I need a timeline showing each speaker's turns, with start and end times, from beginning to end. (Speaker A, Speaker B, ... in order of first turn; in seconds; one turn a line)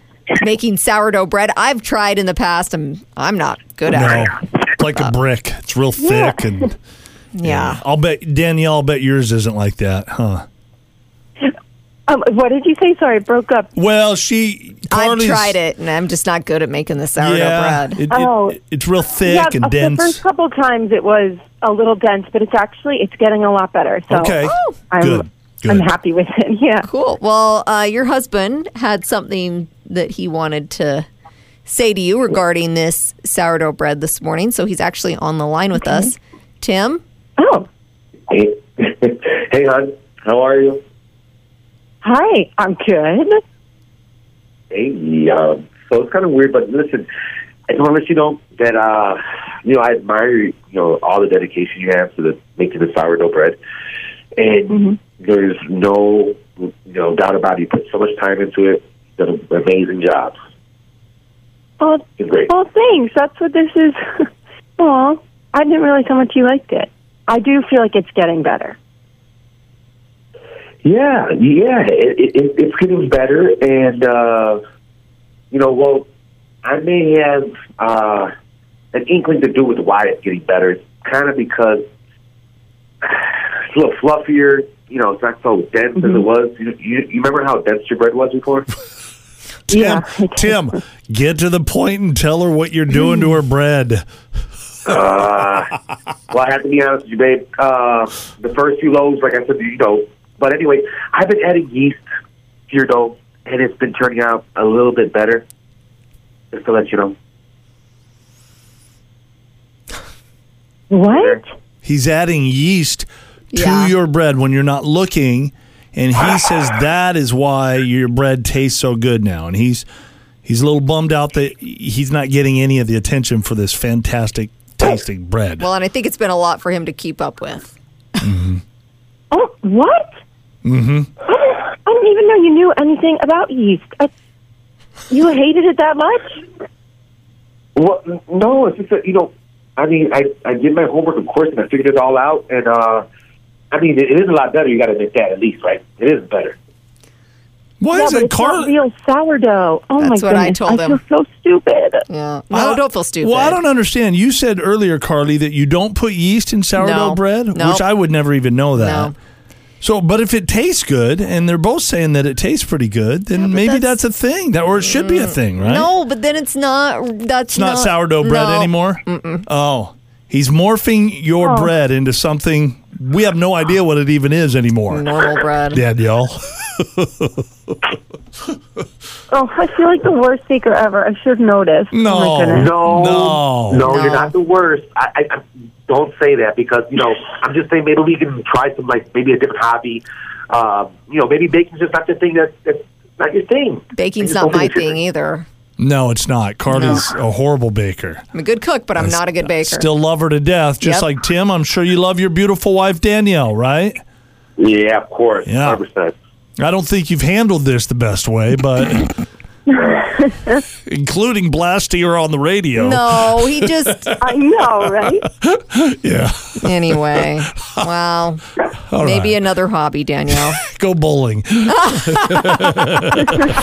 Speaker A: 0.3-5.2
Speaker B: 3.9-6.8
Speaker A: 7.4-7.8
Speaker B: 7.4-10.4
Speaker C: 12.1-13.7
Speaker B: 13.8-15.6
Speaker A: 14.9-18.0
Speaker B: 17.2-20.2
Speaker C: 18.1-18.6
Speaker C: 19.2-24.4
Speaker B: 24.1-25.9
Speaker A: 24.4-24.8
Speaker C: 24.9-26.9
Speaker A: 26.8-31.1
Speaker A: 31.7-37.0
Speaker C: 35.8-36.1
Speaker C: 37.4-37.7
Speaker D: 38.3-40.8
Speaker C: 42.0-43.4
Speaker D: 44.7-47.1
Speaker D: 47.7-53.6
Speaker D: 54.4-60.4
Speaker C: 54.7-55.0
Speaker C: 61.8-68.8
Speaker D: 62.2-62.5
Speaker D: 70.8-74.6
Speaker D: 75.5-76.1
Speaker D: 76.6-78.3
Speaker D: 78.9-81.8
Speaker D: 83.0-88.7
Speaker C: 86.0-86.2
Speaker B: 89.7-94.0
Speaker C: 89.7-90.7
Speaker C: 92.9-93.2
Speaker D: 94.9-95.7
Speaker D: 96.3-102.0
Speaker D: 102.7-105.4
Speaker D: 106.5-107.1
Speaker C: 110.9-111.4
Speaker D: 111.1-111.4
Speaker B: 111.8-119.9
Speaker A: 113.5-114.0
Speaker B: 120.5-125.7
Speaker A: 125.6-127.7
Speaker B: 128.2-128.6
Speaker C: 129.3-130.2
Speaker B: 130.6-131.1
Speaker C: 131.3-134.1
Speaker C: 135.1-136.4
Speaker D: 137.8-143.1
Speaker D: 143.7-146.6
Speaker B: 147.8-148.7
Speaker C: 147.9-152.1
Speaker A: 150.0-151.0
Speaker A: 152.1-153.6
Speaker B: 152.5-159.1
Speaker A: 156.8-157.8
Speaker A: 158.8-159.2
Speaker B: 159.8-165.9
Speaker A: 163.4-163.9
Speaker A: 164.8-169.5
Speaker B: 167.5-175.2
Speaker C: 171.4-171.7
Speaker A: 174.9-175.8
Speaker B: 175.7-177.4
Speaker C: 179.3-182.7
Speaker B: 181.9-183.8
Speaker D: 182.5-195.0
Speaker A: 183.8-184.3
Speaker A: 193.9-195.5
Speaker B: 195.8-198.2
Speaker A: 196.7-197.1
Speaker A: 198.3-199.9
Speaker B: 199.0-204.0
Speaker A: 200.8-201.1
Speaker D: 204.6-206.2
Speaker B: 205.5-205.8
Speaker B: 206.6-209.1
Speaker B: 210.9-214.2
Speaker A: 212.8-214.1
Speaker C: 214.2-215.3
Speaker B: 215.3-217.9
Speaker A: 216.6-218.4
Speaker B: 218.9-219.4
Speaker A: 219.0-220.6
Speaker B: 220.6-223.4
Speaker A: 221.8-222.4